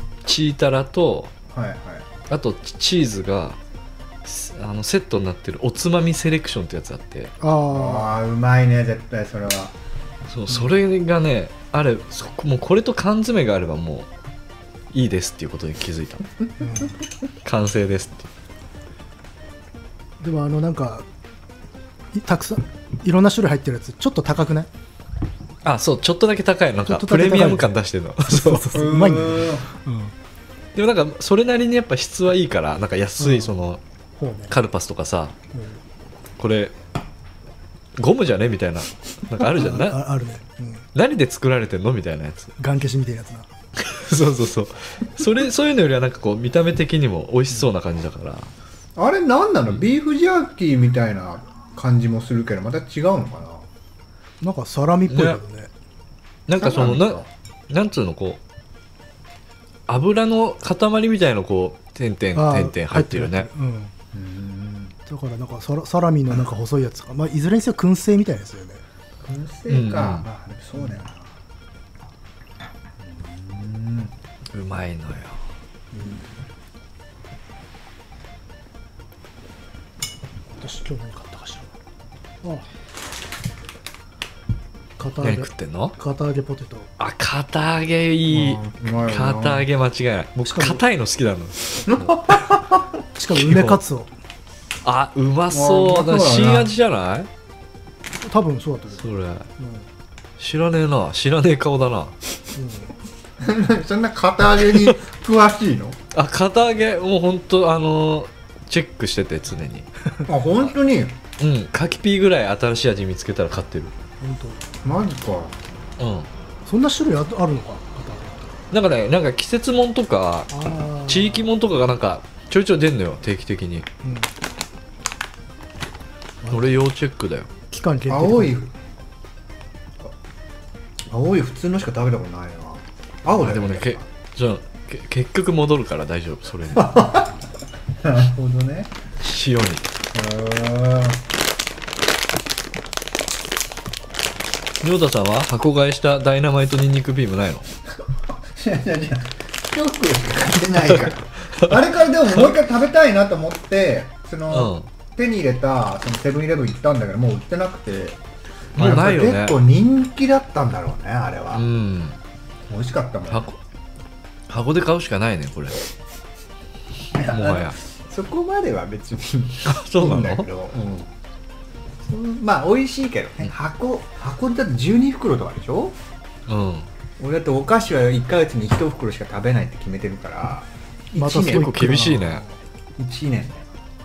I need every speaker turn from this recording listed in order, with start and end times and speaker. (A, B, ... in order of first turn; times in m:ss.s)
0:00.2-0:01.3 A
0:01.5-0:02.1 B
0:02.3-0:03.6 A
0:04.2-0:07.3 A
0:07.4-0:08.1 C
0:07.7-0:09.7 B
0:10.3-0:14.1 A
0:14.9-0:16.2 A
0:16.6-0:17.0 C
0:17.4-0:18.3 A
0:20.2-0:21.0 C
0:22.1-0:24.7 C
0:25.6-0:28.7 A
0:26.8-0:27.7 C
0:28.2-0:30.1 C
0:28.7-0:29.7 B
0:30.7-0:33.8 A
0:33.2-0:33.6 C
0:34.2-0:34.5 C
0:34.5-0:35.3 A
0:36.4-0:36.7 A
0:38.0-0:40.0 A
0:39.5-0:40.8 C
0:40.9-0:42.5 A
0:42.6-0:43.5 C
0:43.8-0:48.5 A
0:49.0-0:53.6 B
0:54.4-0:55.7 C
0:55.1-0:55.4 A
0:56.5-0:58.4 A
0:56.6-0:57.3 B
0:59.9-1:03.5 A
1:02.3-1:03.9 C
1:04.1-1:04.9 B
1:05.0-1:08.8 C
1:09.2-1:11.3 B
1:09.7-1:10.2 A
1:13.0-1:14.1 B
1:14.5-1:15.4 A
1:15.9-1:16.2 C
1:20.6-1:21.7 C
1:25.0-1:26.9 C
1:25.2-1:26.0 A
1:27.0-1:32.2 A
1:28.3-1:29.6 B
1:30.4-1:30.8 C
1:31.9-1:32.9 B
1:33.1-1:34.1 C
1:33.3-1:33.8 A
1:34.8-1:37.3 A
1:35.5-1:36.7 B
1:38.2-1:39.0 C
1:39.0-1:39.5 A
1:39.6-1:39.8 C
1:40.4-1:42.2 A
1:42.5-1:42.9 C
1:43.4-1:46.0 B
1:46.1-1:49.9 A
1:50.2-1:51.2 B
1:51.4-1:53.9 A
1:54.2-1:54.6 C
1:54.8-1:55.6 B
1:56.0-1:56.3 A
1:56.6-1:58.4 C
1:58.7-2:00.5 A
2:00.5-2:01.4 C
2:01.0-2:03.9 A
2:04.0-2:04.3 C
2:06.5-2:07.5 A
2:07.7-2:08.6 C
2:08.1-2:08.7 B
2:11.1-2:14.0 B
2:13.3-2:17.1 A
2:16.7-2:17.3 B
2:18.0-2:18.9 B
2:19.2-2:19.8 A
2:20.1-2:21.2 B
2:24.8-2:27.7 A
2:28.5-2:38.2 B
2:30.9-2:31.8 A
2:34.5-2:34.8 A
2:38.8-2:41.6 B
2:38.8-2:39.6 A
2:41.5-2:42.2 A
2:42.7-2:43.4 B
2:43.3-2:43.6 A
2:44.5-2:45.8 A
2:47.2-2:47.8 A
2:47.2-2:51.1 B
2:49.6-2:50.5 A
2:52.0-2:55.9 B
2:56.5-2:56.9 A
2:57.2-3:01.9 B
3:01.2-3:02.5 C
3:01.3-3:02.4 A
3:03.0-3:03.7 B